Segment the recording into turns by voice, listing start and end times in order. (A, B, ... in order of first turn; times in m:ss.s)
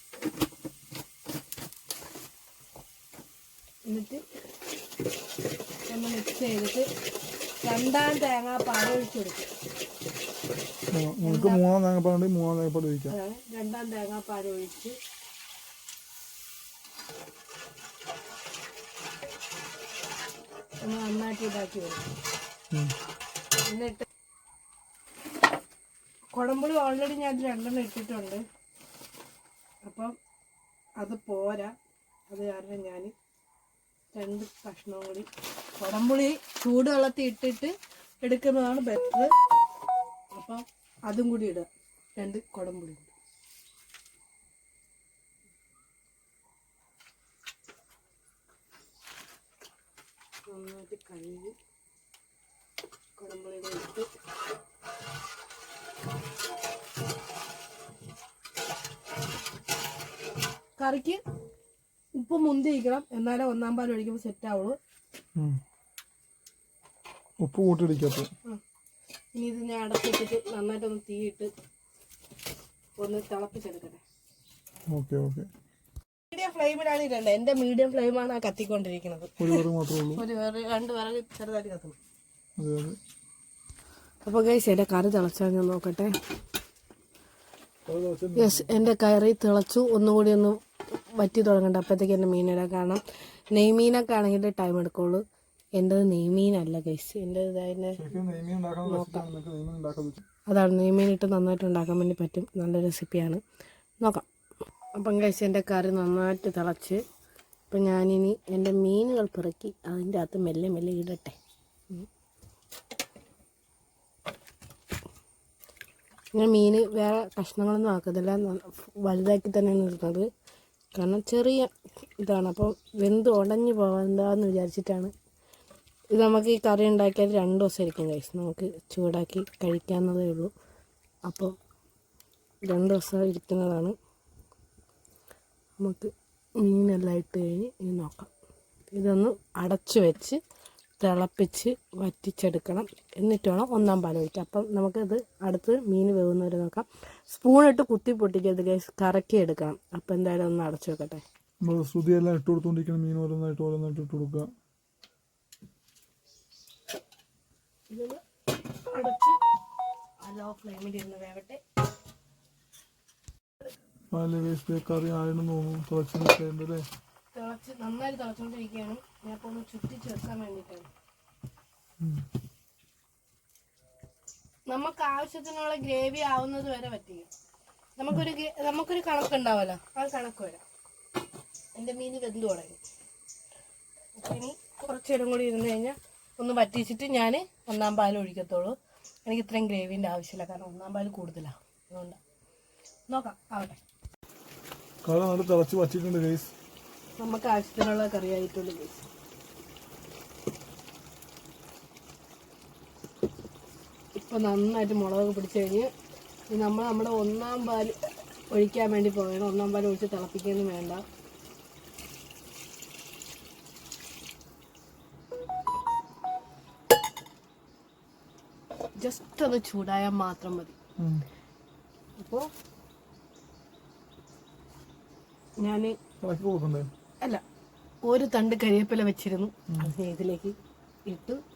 0:03.9-0:04.2 A
0:05.9-0:06.9 A
0:07.6-0:09.5 A
0:10.9-0:13.2 B
0:11.2-0:11.6 A
0:13.1-0:15.0 A
0:20.8-0:22.1 A
0:23.6-0:24.0 A
0:26.3-0:28.4 A
0:29.8-0:30.1 A
0:31.0-0:31.7 A
0:32.3-0:33.1 A
0:34.1-0:39.3 A
0:40.4-0:43.1 A
0:50.5-0:51.5 A
0:53.2-0:54.1 A
1:00.8-1:01.2 A
1:02.1-1:04.8 A
1:07.4-1:08.3 B
1:09.3-1:11.5 A
1:13.0-1:14.0 A
1:14.9-1:15.5 B
1:16.3-1:22.0 A
1:19.4-1:20.2 B
1:22.6-1:23.0 B
1:24.2-1:26.1 A
1:27.9-1:28.7 B
1:28.4-1:30.6 A
1:31.2-1:33.0 A
1:33.5-1:35.2 A
1:35.8-1:38.0 A
1:37.9-1:40.2 B
1:38.8-1:39.3 A
1:40.5-1:43.4 A
1:44.0-1:44.2 A
1:44.9-1:47.0 A
1:47.7-1:51.4 A
1:56.3-2:00.2 A
2:00.9-2:05.1 A
2:06.1-2:10.5 A
2:11.3-2:11.6 A
2:12.6-2:13.9 A
2:15.8-2:18.3 A
2:18.9-2:20.4 A
2:21.0-2:31.2 A
2:31.6-2:34.5 B
2:37.9-2:38.2 A
2:38.9-2:39.4 A
2:40.2-2:41.6 A
2:44.1-2:46.8 B
2:47.3-2:50.9 A
2:54.7-2:57.3 A
2:58.0-3:00.6 A
3:01.7-3:02.8 A
3:04.2-3:12.2 A
3:13.1-3:13.8 A
3:15.0-3:16.5 B
3:17.2-3:19.0 A
3:24.1-3:25.9 A
3:26.5-3:28.0 A
3:28.5-3:31.0 A
3:39.0-3:40.7 A
3:41.0-3:41.2 B
3:42.2-3:42.5 A
3:45.6-3:45.9 A
3:46.2-3:46.9 B
3:48.0-3:50.6 A
3:51.1-3:51.4 A